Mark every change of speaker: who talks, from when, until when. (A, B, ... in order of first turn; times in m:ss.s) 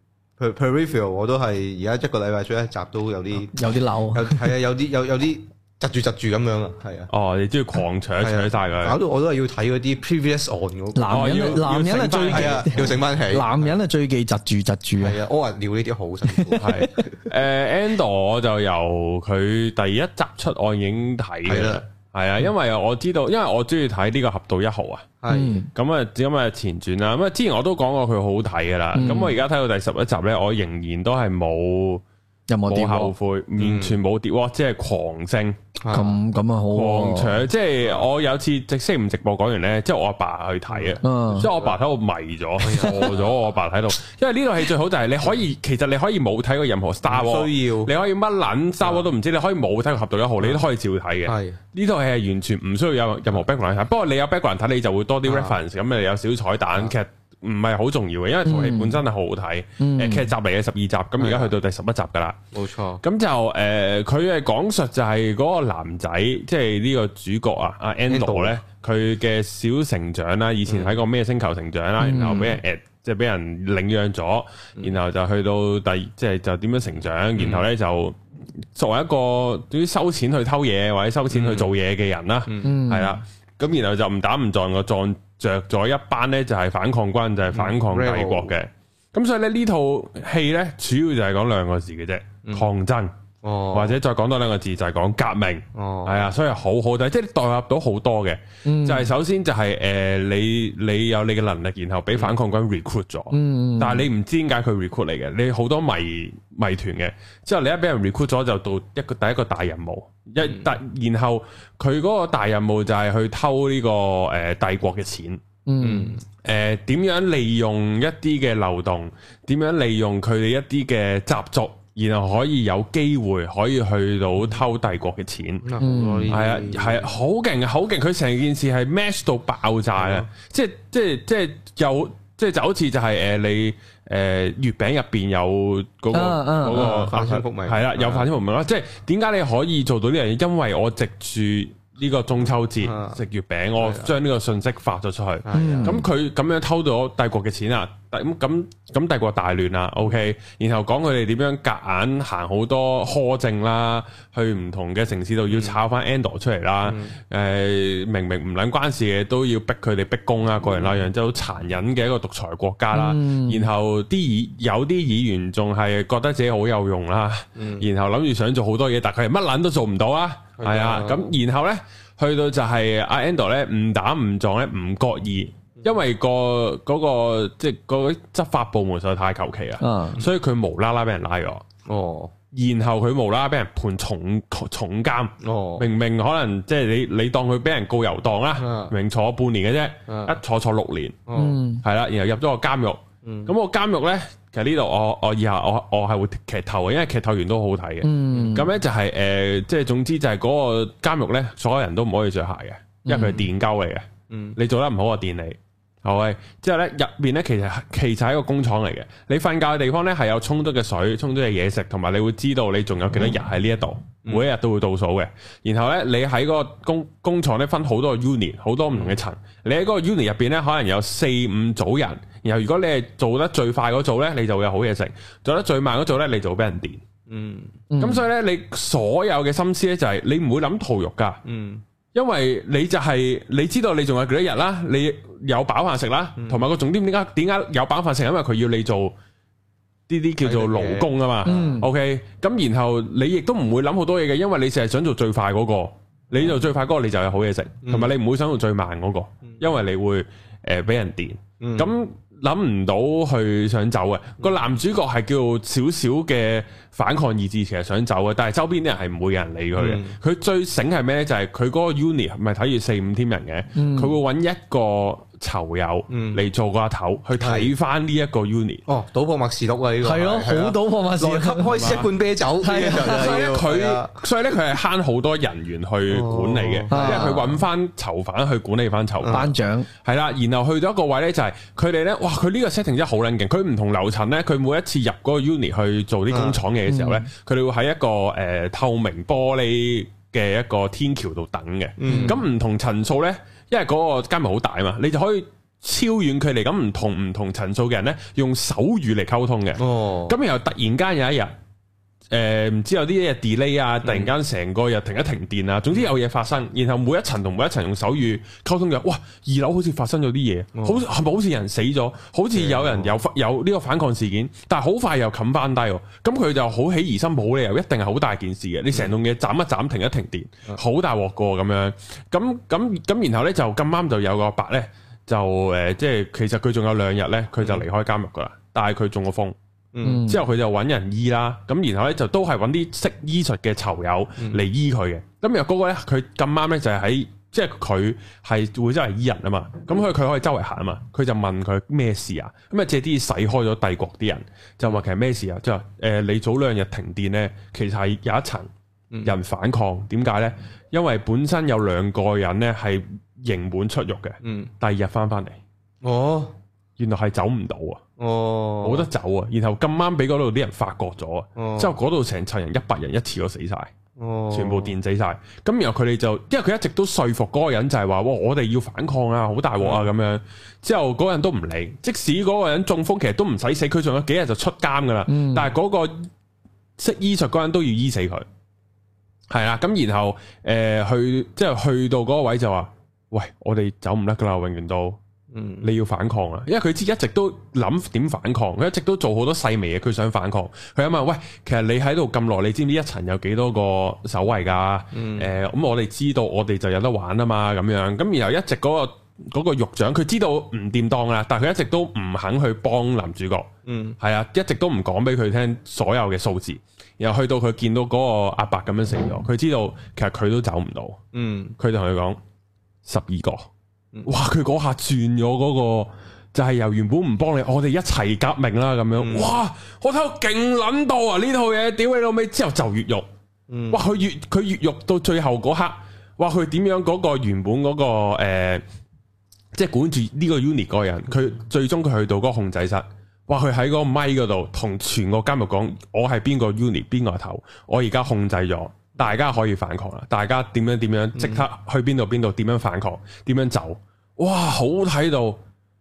0:00.4-0:07.1 A
0:03.5-0:04.5 B
0:07.1-0:09.0 C
0:08.2-0:11.6 A
0:11.0-0:15.2 B
0:11.1-0:12.8 C
0:12.3-0:13.7 A
0:15.0-0:17.2 A
0:16.3-0:16.6 B
0:16.6-0:25.1 C
0:21.5-0:21.8 A
0:25.2-0:25.7 A
0:25.3-0:25.7 B
0:25.8-0:32.0 C
0:28.9-0:29.4 B
0:32.5-0:33.1 B
0:32.7-0:35.6 C
0:33.6-0:34.0 A
0:35.8-0:36.2 A
0:35.9-0:37.5 B
0:36.7-1:02.4 C
0:37.8-0:38.1 A
0:40.7-0:41.8 A
0:41.0-0:41.5 B
0:42.6-0:43.3 A
0:47.1-0:47.9 A
0:48.8-0:49.1 A
0:51.3-0:51.6 A
0:55.2-0:55.6 A
0:58.4-0:59.0 B
0:59.8-1:00.3 B
1:01.2-1:01.5 A
1:02.5-1:03.0 A
1:03.0-1:18.2 C
1:08.1-1:08.6 A
1:10.7-1:11.0 A
1:12.0-1:12.6 B
1:17.4-1:17.6 A
1:18.7-1:33.1 C
1:21.3-1:21.7 A
1:22.5-1:22.8 A
1:22.6-1:23.1 B
1:27.5-1:28.5 A
1:33.4-1:34.0 A
1:33.7-1:55.4 C
1:35.8-1:36.3 A
1:38.6-1:39.1 B
1:43.3-1:44.1 B
1:50.4-1:50.7 A
1:55.7-1:56.2 B
1:55.8-1:56.2 A
1:56.4-2:05.7 C
2:05.6-2:07.1 A
2:05.8-2:06.4 B
2:06.3-3:01.6 C
2:10.0-2:10.3 A
2:16.1-2:17.4 B
2:16.7-2:18.3 A
2:22.8-2:23.2 A
2:23.8-2:24.2 A
2:25.4-2:26.0 A
2:25.5-2:26.1 B
2:35.5-2:35.8 A
2:36.8-2:37.2 A
2:40.7-2:41.0 A
2:42.9-2:43.7 B
2:47.6-2:47.9 A
2:50.6-2:51.3 A
2:59.8-3:00.2 B
3:01.9-3:02.3 A
3:02.5-3:11.2 C
3:05.4-3:05.9 A
3:08.6-3:08.9 A
3:10.1-3:10.4 A
3:11.3-3:11.6 A
3:11.3-3:11.8 B
3:11.8-3:47.0 C
3:13.2-3:13.5 A
3:18.0-3:18.7 B
3:23.0-3:23.5 B
3:24.3-3:24.6 A
3:38.9-3:39.2 A
3:47.3-3:47.8 A
3:47.9-3:48.2 B
3:48.0-3:51.4 C
3:51.4-3:51.8 A
3:52.1-3:59.2 C
3:56.4-3:56.6 A
4:00.1-4:28.8 C
4:00.4-4:01.7 A
4:01.4-4:01.9 B
4:07.8-4:08.1 A
4:11.6-4:11.9 A
4:19.8-4:20.2 A
4:23.8-4:24.2 B
4:26.1-4:26.4 A
4:27.4-4:27.7 A
4:28.9-4:34.2 A
4:30.0-4:32.0 B
4:31.7-4:32.1 C
4:32.6-4:33.4 B
4:32.8-4:39.5 C
4:36.1-4:37.4 A
4:36.9-4:37.6 B
4:39.2-4:39.5 A
4:39.3-4:39.9 B
4:40.0-5:01.5 C
4:46.3-4:46.6 A
4:46.9-4:47.3 B
4:52.0-4:52.4 A
4:52.1-4:52.4 B
4:59.8-5:00.4 A
5:02.3-5:29.6 C
5:04.0-5:04.3 A
5:10.8-5:11.0 A
5:12.5-5:13.2 A
5:29.9-5:30.3 A
5:30.0-5:30.4 B
5:30.3-5:48.7 C
5:49.2-5:55.6 C
5:54.4-5:54.7 A
5:56.0-5:56.5 A
5:57.0-5:58.0 C
5:58.2-5:59.1 A
5:58.8-6:03.9 C
6:01.6-6:02.0 A
6:04.2-6:05.0 A
6:04.5-6:16.3 C
6:09.8-6:10.1 A
6:15.3-6:15.7 B
6:17.0-6:18.4 C
6:19.5-6:25.2 C
6:25.5-6:25.9 A
6:25.8-6:43.7 C
6:35.1-6:35.5 A
6:43.9-6:44.2 A
6:44.2-6:51.2 C
6:51.3-6:51.8 A
6:51.8-6:52.4 C
6:53.0-6:53.7 C
6:54.3-7:03.3 C
6:59.2-6:59.6 A
7:03.7-7:04.0 A
7:03.9-7:08.8 C
7:09.8-7:25.6 C
7:21.4-7:21.7 A